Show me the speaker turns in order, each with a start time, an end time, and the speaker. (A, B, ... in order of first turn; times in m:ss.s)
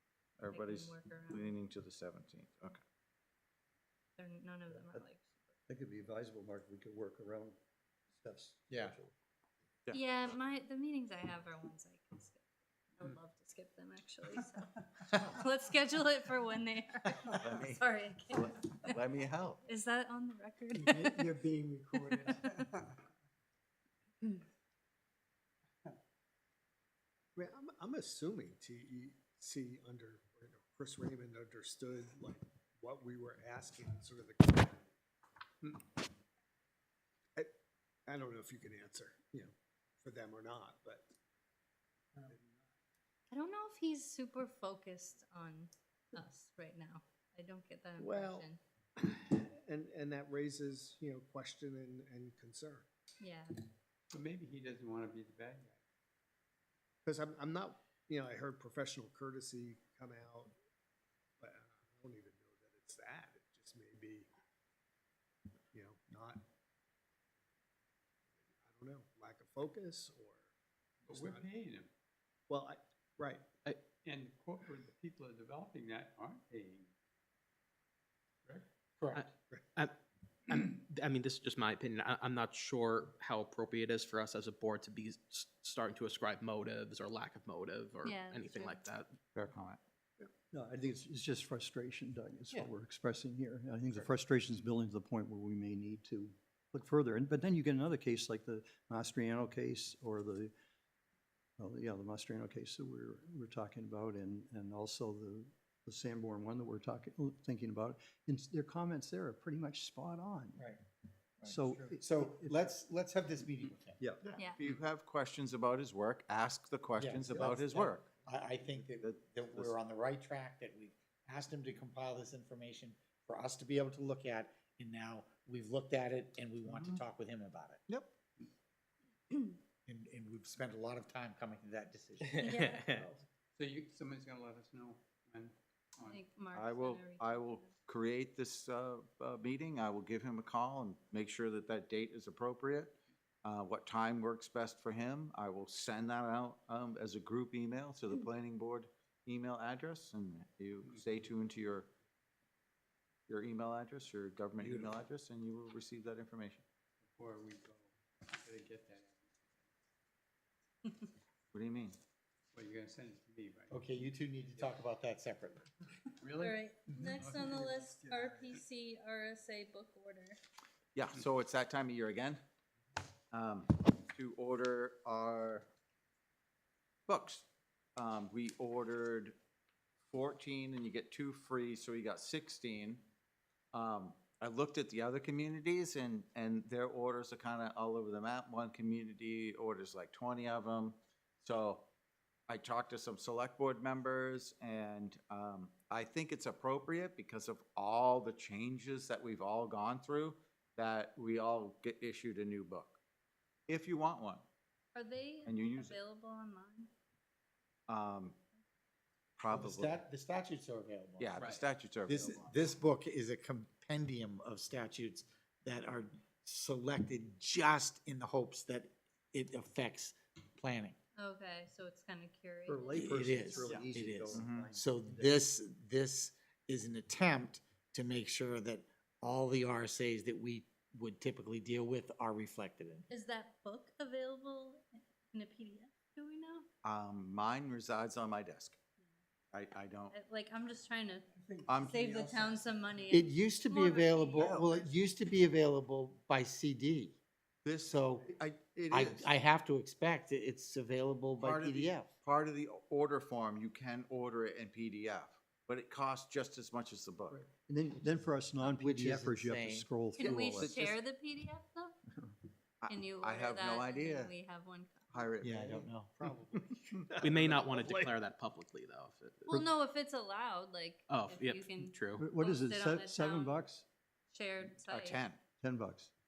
0:00.4-0:02.8 A
0:00.5-0:01.6 B
0:04.2-0:05.5 B
0:04.7-0:05.0 C
0:05.7-0:07.6 C
0:08.1-0:09.1 C
0:09.9-0:12.4 B
0:13.0-0:19.0 B
0:17.2-0:19.6 A
0:19.6-0:21.3 B
0:20.9-0:22.0 D
0:27.4-0:34.8 D
0:38.1-0:41.0 D
0:42.2-0:42.5 D
0:43.3-0:48.6 B
0:48.0-0:48.5 D
0:49.0-0:52.8 D
0:53.2-0:53.6 B
0:54.1-0:55.8 E
0:57.0-1:00.5 D
1:01.4-1:04.3 D
1:05.7-1:06.4 D
1:08.4-1:10.5 D
1:11.1-1:11.5 D
1:11.1-1:11.9 E
1:12.5-1:13.4 D
1:13.6-1:13.9 F
1:13.9-1:16.9 E
1:19.0-1:19.3 G
1:19.2-1:29.2 F
1:28.0-1:28.8 B
1:29.3-1:29.8 A
1:30.5-1:40.5 C
1:41.6-1:50.6 C
1:51.4-1:54.0 G
1:51.4-1:52.7 C
1:54.6-1:58.1 A
1:57.0-2:07.8 G
1:58.8-1:59.7 A
2:09.9-2:13.1 G
2:12.4-2:13.0 F
2:12.4-2:12.8 B
2:13.6-2:16.2 E
2:16.1-2:17.7 B
2:16.5-2:31.9 A
2:33.3-2:36.6 A
2:34.6-2:35.0 G
2:37.1-2:39.4 E
2:41.5-2:42.0 A
2:42.5-2:43.9 E
2:43.7-2:45.7 G
2:46.2-2:48.6 E
2:46.4-2:50.4 B
2:51.0-2:52.4 A
2:53.3-2:55.7 A
2:57.1-2:59.3 A
3:00.1-3:03.0 A
3:03.7-3:11.9 A
3:12.5-3:23.0 A
3:23.7-3:24.4 A
3:24.9-3:26.9 B
3:25.5-3:26.0 A
3:27.9-3:28.4 A
3:29.4-3:30.0 A
3:29.5-3:31.5 G
3:31.2-3:32.5 A
3:31.4-3:31.6 F
3:32.1-3:41.0 G
3:41.2-3:43.8 B
3:42.7-3:45.4 C
3:42.9-3:53.1 G
3:44.3-3:44.7 A
3:53.1-3:56.7 B
3:56.8-3:58.8 A
3:59.5-4:00.1 A
4:00.1-4:04.6 B
4:01.7-4:02.1 A
4:02.2-4:02.6 E
4:03.1-4:07.2 G
4:04.4-4:04.7 A
4:07.6-4:09.3 A
4:07.8-4:08.3 G
4:08.9-4:12.1 G
4:11.4-4:17.5 A
4:17.5-4:20.8 C
4:18.6-4:19.9 G
4:20.2-4:21.9 B
4:20.2-4:21.0 A
4:22.1-4:22.4 C
4:22.8-4:24.3 A
4:22.9-4:25.3 B
4:25.1-4:25.9 A
4:25.4-4:26.1 G
4:25.6-4:28.1 D
4:27.2-4:29.5 F
4:29.5-4:33.6 B
4:31.1-4:32.2 F
4:32.2-4:33.8 C
4:34.3-4:35.2 B
4:34.9-4:35.4 A
4:35.6-4:36.1 C